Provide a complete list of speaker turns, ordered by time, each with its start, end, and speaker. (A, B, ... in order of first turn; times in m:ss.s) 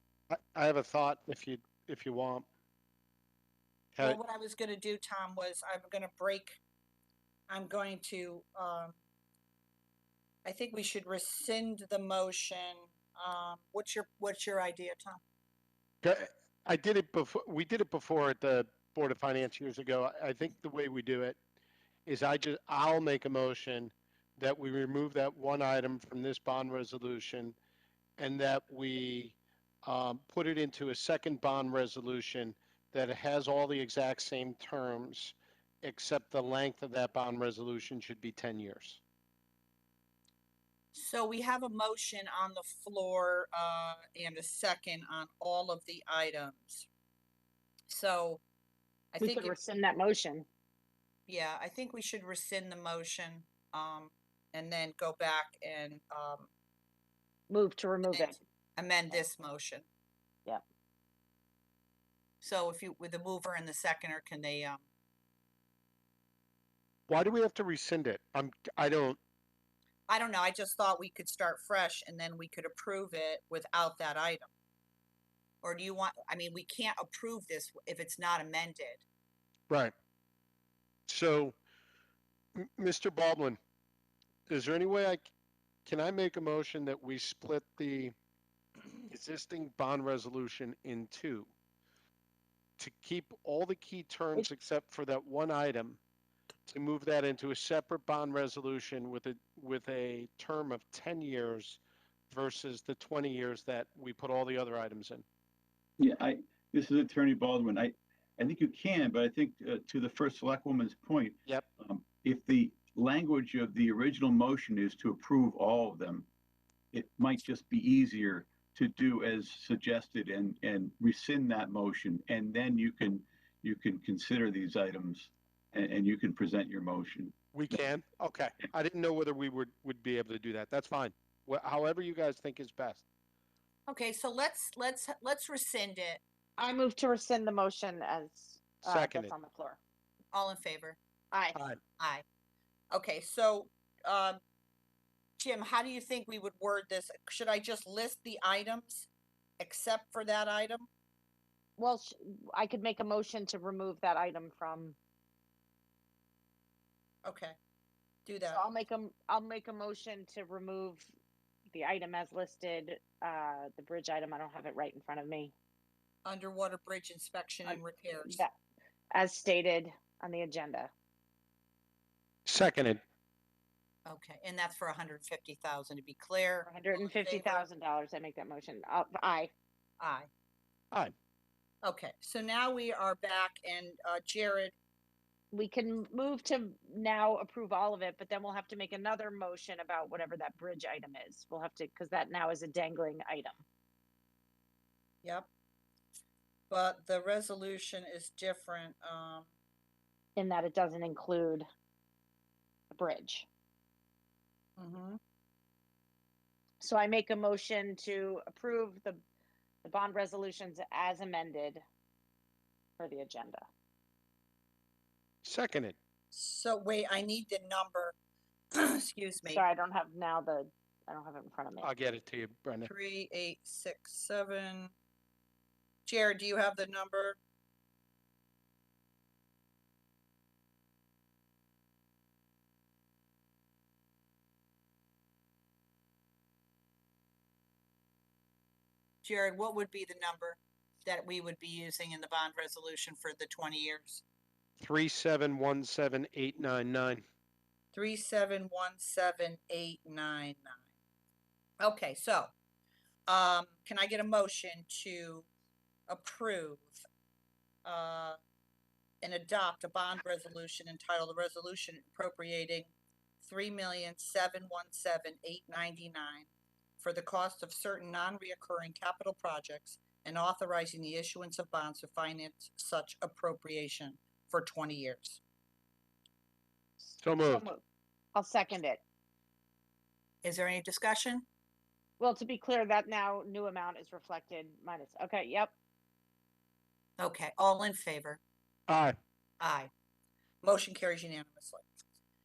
0:00.3-0:02.5 A
0:03.9-0:04.2 A
0:04.0-0:06.6 B
0:07.5-0:09.0 B
0:10.4-0:15.2 B
0:16.0-0:21.4 A
0:22.1-0:27.6 A
0:28.2-0:39.0 A
0:40.9-0:46.9 B
0:47.9-0:48.4 B
0:49.1-0:49.6 B
0:49.2-0:50.5 C
0:51.3-0:56.5 B
0:57.5-0:58.4 C
0:58.1-0:59.9 B
1:02.4-1:04.8 B
1:07.1-1:09.2 A
1:10.1-1:14.5 B
1:15.6-1:19.0 B
1:21.1-1:21.6 A
1:22.6-1:23.6 A
1:24.5-1:25.3 A
1:25.9-1:28.1 A
1:29.1-1:31.5 A
1:32.8-1:36.0 A
1:36.7-1:45.2 A
1:46.0-1:56.3 D
1:56.9-2:07.3 D
2:07.5-2:13.0 A
2:13.9-2:16.2 B
2:16.6-2:19.8 C
2:18.8-2:19.3 A
2:20.3-2:21.0 B
2:21.3-2:21.6 C
2:22.0-2:22.2 B
2:22.9-2:24.4 B
2:25.4-2:29.1 B
2:29.6-2:30.9 B
2:31.8-2:35.0 C
2:37.2-2:37.6 B
2:38.2-2:38.6 B
2:38.5-2:41.1 C
2:41.7-2:45.5 C
2:46.2-2:48.4 B
2:47.6-2:48.5 C
2:49.1-2:50.9 C
2:52.5-2:53.0 A
2:54.1-2:57.6 B
2:56.7-2:59.5 C
3:00.0-3:00.3 B
3:01.8-3:04.7 B
3:05.5-3:13.6 C
3:16.7-3:19.5 B
3:20.4-3:21.7 C
3:22.9-3:23.5 C
3:24.8-3:25.2 B
3:26.8-3:29.2 C
3:29.8-3:31.8 C
3:33.0-3:33.7 C
3:35.4-3:36.0 A
3:36.3-3:38.2 B
3:38.8-3:39.6 B
3:39.5-3:41.9 C
3:41.8-3:42.9 A
3:42.9-3:44.9 B
3:46.1-3:47.4 B
3:59.2-4:04.2 B
4:04.8-4:07.2 A
4:07.9-4:10.8 B
4:11.8-4:12.5 B
4:13.3-4:15.5 B
4:16.1-4:17.0 B
4:17.8-4:18.4 B
4:19.2-4:26.5 B
4:27.0-4:35.4 B
4:37.0-4:37.8 C
4:37.2-4:37.7 A
4:38.4-4:39.0 C
4:40.4-4:41.4 B
4:42.2-4:45.7 C
4:47.2-4:48.4 B
4:48.9-4:49.2 A
4:49.6-4:49.9 B
4:50.6-4:51.8 B